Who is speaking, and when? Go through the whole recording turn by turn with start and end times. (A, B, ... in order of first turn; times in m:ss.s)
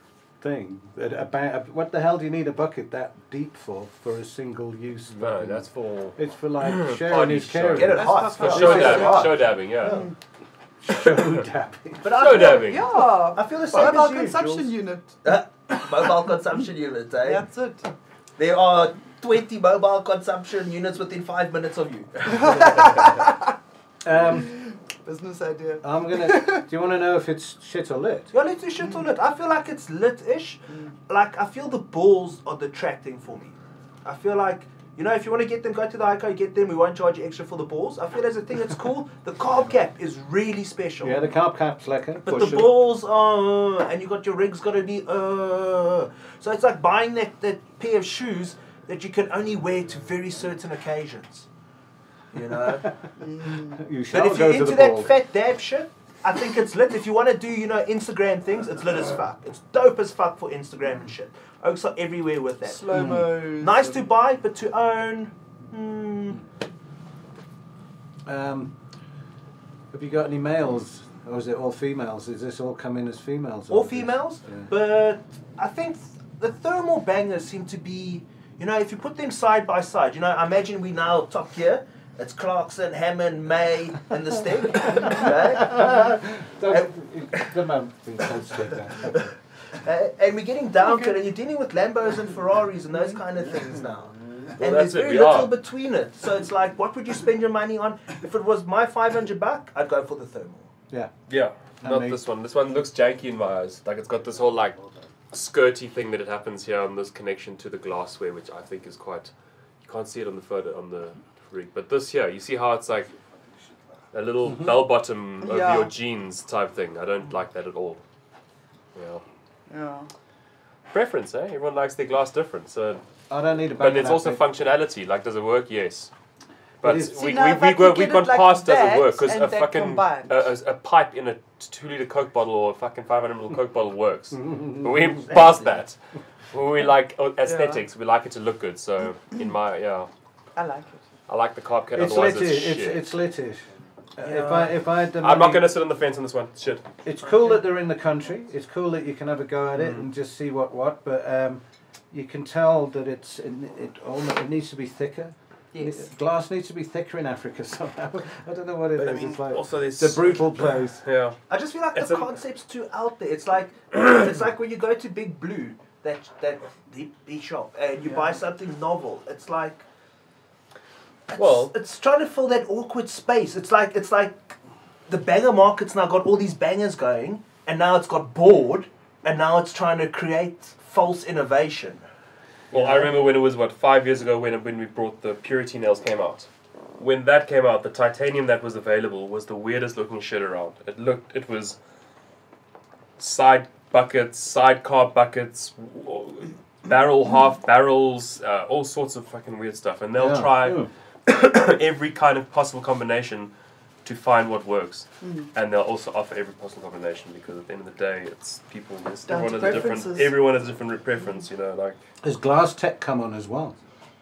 0:00.4-0:09.4 A
0:05.1-0:10.0 B
0:07.8-0:10.1 C
0:08.0-0:10.1 D
0:10.8-0:12.4 A
0:12.0-0:17.5 C
0:12.2-0:12.9 B
0:12.6-0:15.2 D
0:17.2-0:17.9 D
0:18.4-0:23.1 C
0:22.3-0:23.4 D
0:24.0-0:24.6 A
0:24.3-0:26.7 D
0:25.8-0:28.3 A
0:28.3-0:41.2 C
0:41.0-0:42.8 A
0:42.2-0:51.5 C
0:52.3-0:52.9 C
0:53.2-0:53.8 D
0:53.6-0:55.2 A
0:54.1-1:06.4 C
1:02.7-1:03.9 D
1:02.9-1:03.5 A
1:08.3-1:08.7 A
1:09.9-1:14.7 A
1:13.7-1:27.5 C
1:25.1-1:29.3 A
1:28.5-1:29.2 C
1:29.8-1:40.7 C
1:34.6-1:35.5 B
1:41.3-1:44.8 B
1:41.8-1:42.2 A
1:45.3-1:49.3 B
1:49.8-1:53.1 B
1:54.1-1:58.0 B
1:55.4-1:55.9 D
1:59.0-1:59.2 B
1:59.7-2:00.1 D
2:00.9-2:03.0 B
2:03.3-2:04.4 A
2:03.8-2:06.1 B
2:06.8-2:16.0 B
2:06.8-2:07.2 A
2:07.1-2:10.5 D
2:14.3-2:15.4 A
2:16.5-2:20.1 B
2:17.4-2:17.8 D
2:20.6-2:21.0 D
2:21.3-2:23.1 B
2:21.9-2:23.6 A
2:24.2-2:25.7 A
2:24.2-2:24.8 C
2:25.2-2:26.8 B
2:27.0-2:41.0 A
2:29.8-2:30.0 B
2:35.7-2:36.1 D
2:39.0-2:41.4 B
2:41.5-2:49.8 C
2:42.0-2:42.3 B
2:51.3-2:54.6 C
2:51.4-2:51.7 B
2:55.1-3:02.0 C
3:02.7-3:11.8 B
3:02.7-3:03.1 C
3:13.2-3:23.5 B
3:20.2-3:20.9 A
3:24.0-3:32.0 B
3:25.2-3:25.5 D
3:29.3-3:30.4 D
3:32.2-3:33.8 A